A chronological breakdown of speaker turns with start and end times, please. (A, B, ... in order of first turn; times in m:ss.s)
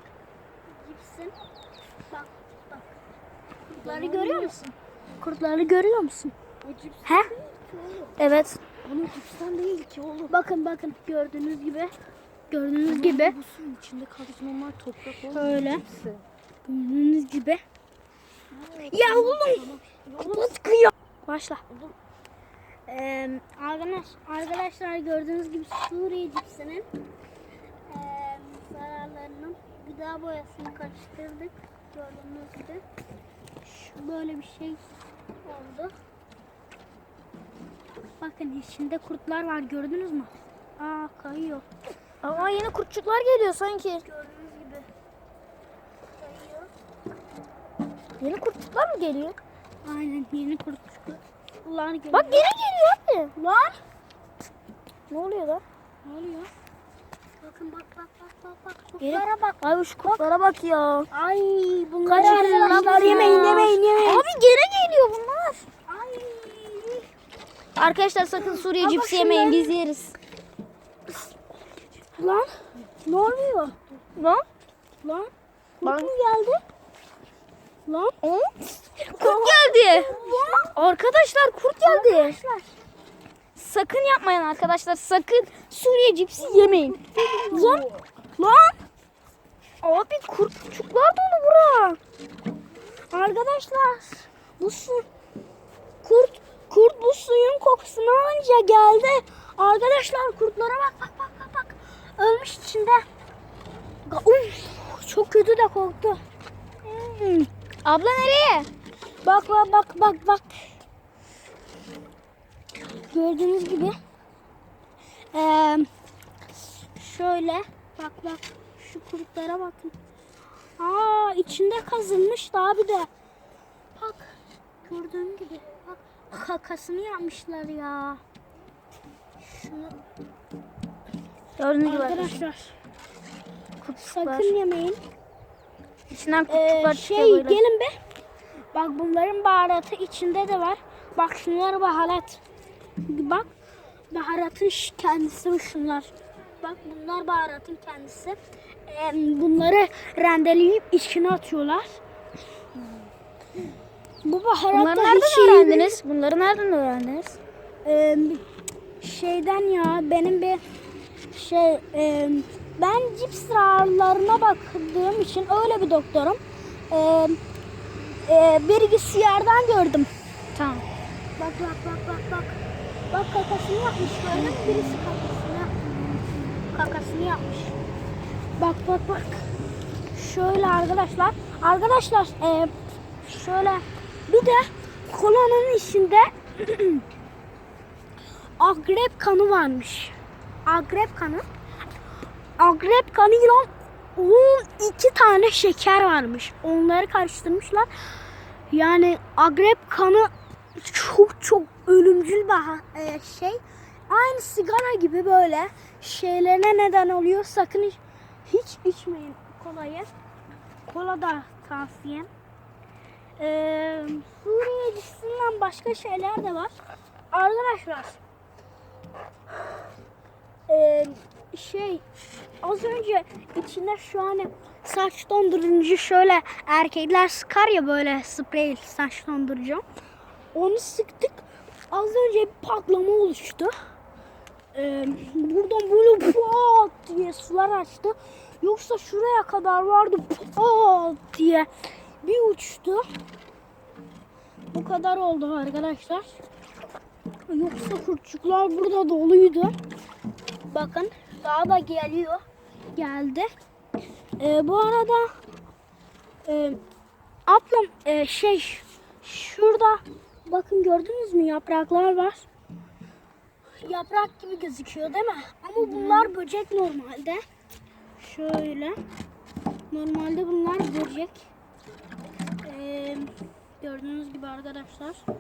0:00.7-0:01.4 A
0:02.1-0:02.9 A
0:03.7-0:04.6 A
0:03.8-0:04.1 B
0:03.9-0:04.7 C
0:05.2-0:06.3 A
0:06.6-0:08.1 B
0:07.0-0:07.3 A
0:08.2-0:10.3 C
0:08.8-0:09.6 B
0:10.3-0:11.9 A
0:12.5-0:13.4 A
0:12.9-0:15.4 C
0:15.0-0:15.4 B
0:15.1-0:15.8 A
0:16.6-0:17.6 A
0:18.5-0:20.5 C
0:18.9-0:21.6 A
0:22.9-0:26.9 A
0:27.9-0:32.8 A
0:33.6-0:34.8 A
0:35.4-0:35.9 A
0:38.2-0:41.6 A
0:42.2-0:44.0 C
0:44.0-0:44.9 A
0:46.2-0:46.7 A
0:48.2-0:49.4 C
0:49.8-0:52.5 A
0:52.1-0:53.3 C
0:53.4-0:53.8 A
0:55.1-0:55.6 C
0:56.0-0:56.5 A
0:57.4-1:00.3 A
0:59.0-1:01.1 C
1:01.1-1:04.3 A
1:02.0-1:05.7 C
1:05.9-1:07.1 A
1:07.8-1:10.2 C
1:08.4-1:09.8 A
1:12.2-1:12.5 A
1:13.0-1:13.8 A
1:14.2-1:14.4 C
1:15.0-1:16.6 A
1:15.8-1:16.1 C
1:17.9-1:18.2 A
1:18.2-1:22.4 C
1:19.2-1:20.7 A
1:21.8-1:22.7 A
1:23.6-1:27.9 C
1:26.4-1:28.8 A
1:29.8-1:32.0 C
1:33.1-1:35.1 A
1:36.0-1:43.0 A
1:44.1-1:46.2 A
1:47.0-1:48.7 C
1:49.2-1:50.6 A
1:53.1-1:54.0 A
1:55.3-1:55.9 A
1:57.0-2:00.0 A
2:00.8-2:03.1 A
2:04.0-2:08.2 A
2:09.4-2:10.0 A
2:11.6-2:12.4 C
2:11.8-2:12.8 A
2:13.8-2:14.6 C
2:14.0-2:15.0 A
2:16.1-2:17.6 C
2:16.5-2:18.0 A
2:18.7-2:22.4 A
2:23.0-2:23.5 A
2:24.1-2:32.0 A
2:34.2-2:36.0 A
2:34.7-2:37.4 C
2:37.8-2:38.4 A
2:39.0-2:40.6 A
2:41.3-2:47.4 A
2:48.2-2:50.1 A
2:50.6-2:50.9 C
2:51.4-2:52.6 A
2:53.1-2:55.7 A
2:56.7-2:57.8 A
2:58.6-2:59.5 A
3:00.1-3:07.0 A
3:08.6-3:11.4 A
3:12.6-3:17.9 A
3:18.7-3:30.1 A
3:30.9-3:32.3 A
3:33.4-3:36.7 A
3:37.3-3:38.2 A
3:40.7-3:42.0 A
3:42.6-3:49.8 A
3:50.5-3:53.8 A
3:54.7-4:01.7 A
4:02.2-4:03.1 A
4:04.7-4:06.4 A
4:07.5-4:09.8 A
4:10.6-4:12.4 A
4:13.0-4:13.5 A
4:14.4-4:15.3 A
4:16.4-4:16.8 A
4:17.5-4:22.5 A
4:23.8-4:27.4 A
4:25.8-4:26.3 C
4:28.2-4:29.0 A
4:29.9-4:31.5 A
4:32.6-4:35.2 A